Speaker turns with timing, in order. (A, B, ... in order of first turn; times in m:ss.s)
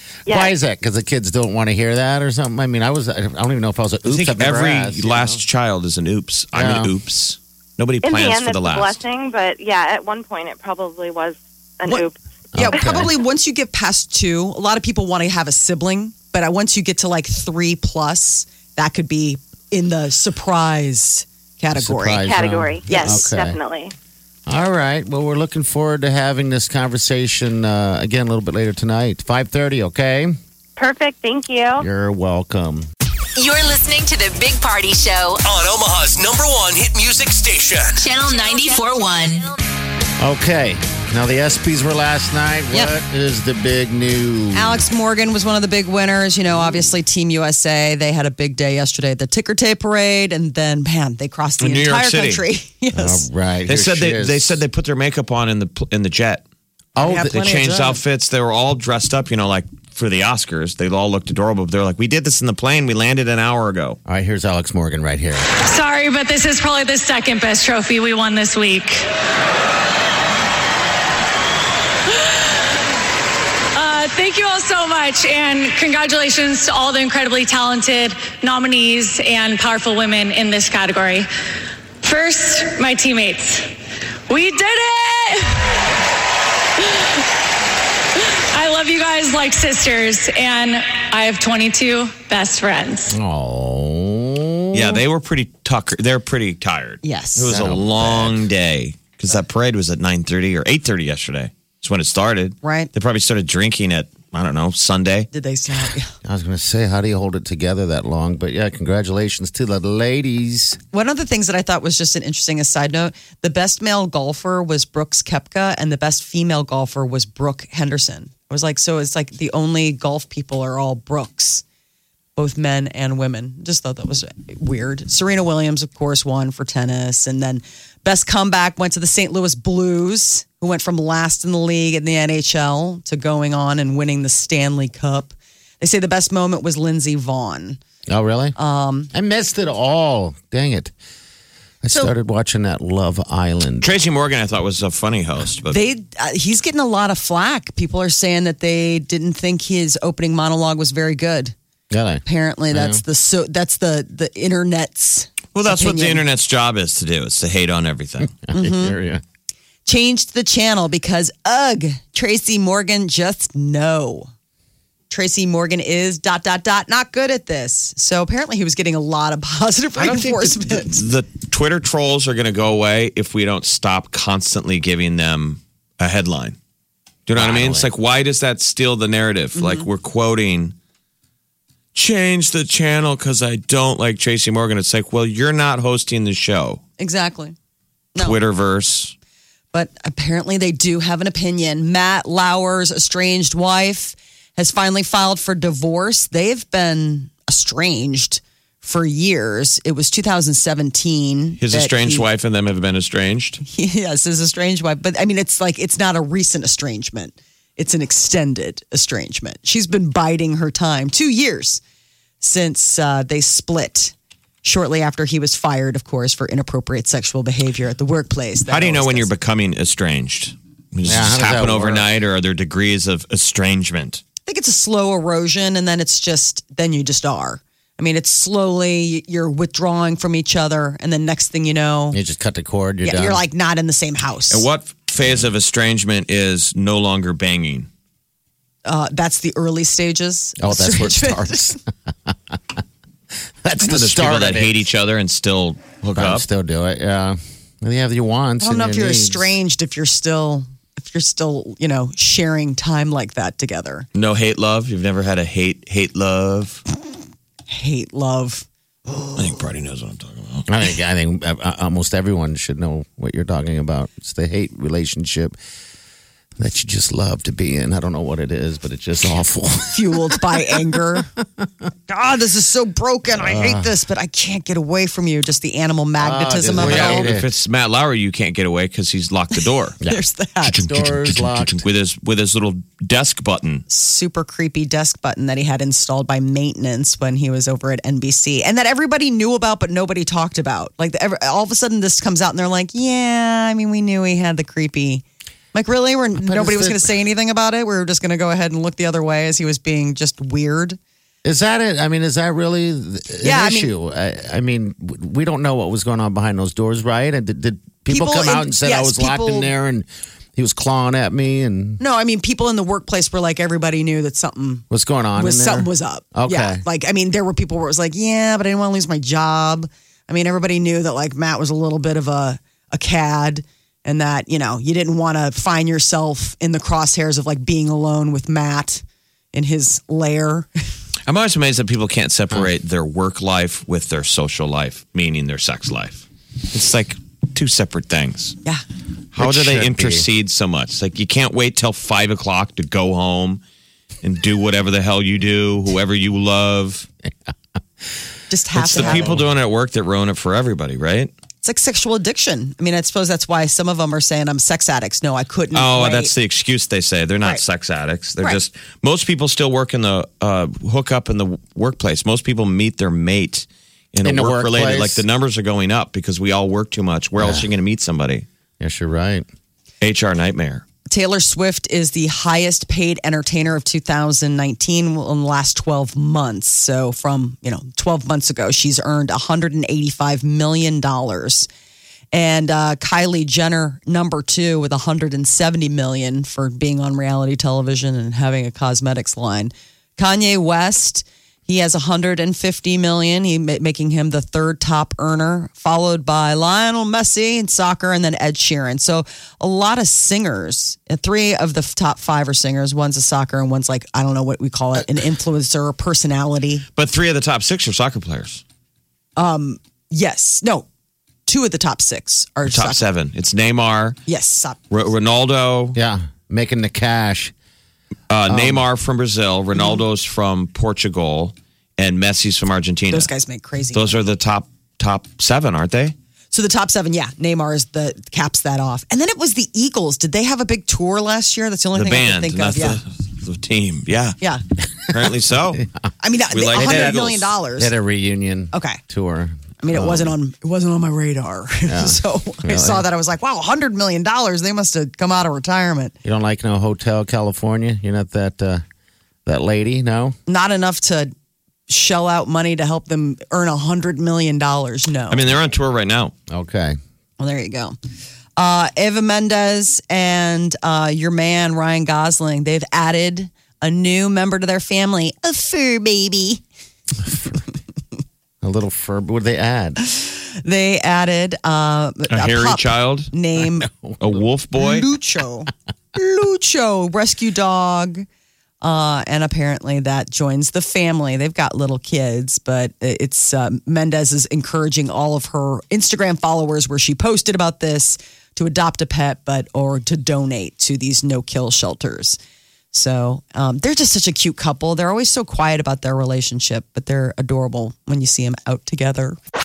0:00.3-0:00.6 A
0:00.3-0:05.4 B
0:04.0-0:09.0 C
0:06.5-0:06.9 B
0:08.0-0:12.2 A
0:11.9-0:22.3 D
0:12.5-0:13.1 B
0:21.8-0:23.6 B
0:22.2-0:23.9 A
0:22.9-0:23.2 D
0:24.5-0:30.3 B
0:30.8-0:31.9 A
0:31.8-0:32.9 B
0:33.4-0:35.4 E
0:35.4-0:38.1 F
0:38.0-0:39.5 E
0:40.2-0:44.8 B
0:44.5-0:53.3 D
0:51.6-0:52.4 C
0:52.9-0:54.6 B
0:53.7-0:56.4 C
0:57.0-0:57.4 B
0:57.0-0:58.0 D
0:57.2-1:04.0 C
1:04.1-1:05.5 B
1:05.6-1:09.0 G
1:12.1-1:12.4 G
1:13.8-1:21.3 G
1:22.0-1:23.7 G
1:24.3-1:25.7 G
1:26.8-1:27.2 G
1:28.2-1:33.2 G
1:33.1-1:35.0 B
1:34.7-1:45.3 C
1:37.0-1:37.6 D
1:37.5-1:38.4 B
1:42.6-1:42.9 D
1:45.3-1:46.2 D
1:46.2-1:50.8 B
1:50.9-2:01.6 D
2:02.4-2:17.8 D
2:18.1-2:18.6 B
2:18.6-2:19.1 D
2:19.1-2:20.9 B
2:21.8-2:23.9 B
2:21.9-2:22.1 D
2:23.8-2:25.8 C
2:25.7-2:31.5 D
2:31.9-2:33.0 B
2:32.2-2:36.2 D
2:35.5-2:38.4 C
2:38.4-2:39.2 B
2:38.5-2:39.0 D
2:39.8-2:44.3 D
2:45.1-2:51.0 D
2:50.0-2:56.6 C
2:57.3-3:00.7 C
2:57.4-2:57.9 B
2:59.6-2:59.9 D
3:01.9-3:06.8 C
3:07.0-3:07.6 D
3:08.2-3:09.1 C
3:09.7-3:22.3 D
3:21.6-3:23.6 C
3:23.6-3:31.8 D
3:32.4-3:39.3 D
3:38.7-3:44.2 C
3:41.0-3:42.1 B
3:44.4-3:52.2 D
3:52.1-3:53.4 B
3:53.0-3:54.7 D
3:54.5-3:57.9 C
3:58.8-4:01.8 D
4:00.6-4:02.3 B
4:03.6-4:04.8 B
4:03.8-4:06.4 C
4:06.2-4:09.5 B
4:08.6-4:14.1 D
4:14.2-4:16.8 C
4:17.7-4:18.7 D
4:19.4-4:20.7 C
4:20.7-4:25.6 B
4:26.6-4:30.8 B
4:29.9-4:31.3 D
4:32.1-4:37.3 D
4:33.4-4:33.9 B
4:36.2-4:37.5 B
4:36.8-4:40.0 C
4:40.0-4:41.8 B
4:40.0-4:40.9 D
4:40.6-4:43.8 C
4:43.9-5:01.0 D
4:56.4-4:57.1 B
5:01.4-5:12.0 B
5:03.4-5:03.9 D
5:08.1-5:09.7 D
5:12.0-5:14.8 D
5:14.9-5:16.8 B
5:15.4-5:30.7 D
5:31.3-5:38.6 C
5:39.3-5:43.6 C
5:39.4-5:40.3 B
5:44.2-5:47.1 C
5:48.5-5:49.4 D
5:48.8-5:51.3 C
5:49.0-5:49.4 B
5:51.6-5:56.3 D
5:55.7-6:08.5 C
6:04.2-6:05.2 B
6:07.4-6:07.7 B
6:08.8-6:09.4 B
6:10.0-6:10.8 C
6:11.1-6:21.7 D
6:22.3-6:46.9 D
6:47.0-6:48.6 C
6:49.4-6:50.9 D
6:51.5-6:53.0 D
6:52.7-6:54.2 C
6:54.3-6:55.1 D
6:54.9-6:56.0 C
6:56.0-6:57.5 B
6:58.3-7:03.3 C
6:58.5-6:58.9 B
7:03.1-7:04.2 D
7:03.9-7:06.2 C
7:06.5-7:13.0 D
7:11.9-7:14.4 C
7:15.0-7:15.8 C
7:16.2-7:17.9 D
7:16.5-7:17.5 C
7:16.8-7:20.3 B
7:18.7-7:19.0 D
7:19.8-7:26.2 D
7:21.9-7:23.1 B
7:26.2-7:28.8 B
7:29.5-7:30.4 B
7:30.5-7:31.3 D
7:31.9-7:35.6 D
7:35.3-7:36.3 C
7:36.5-7:37.0 B
7:37.4-7:38.0 D
7:38.6-7:46.6 D
7:48.6-7:50.0 B
7:50.0-7:53.9 D
7:52.3-7:53.3 C
7:53.6-7:54.4 B
7:54.2-7:55.1 C
7:54.8-7:58.3 D
7:58.8-8:12.4 D
8:12.9-8:19.4 D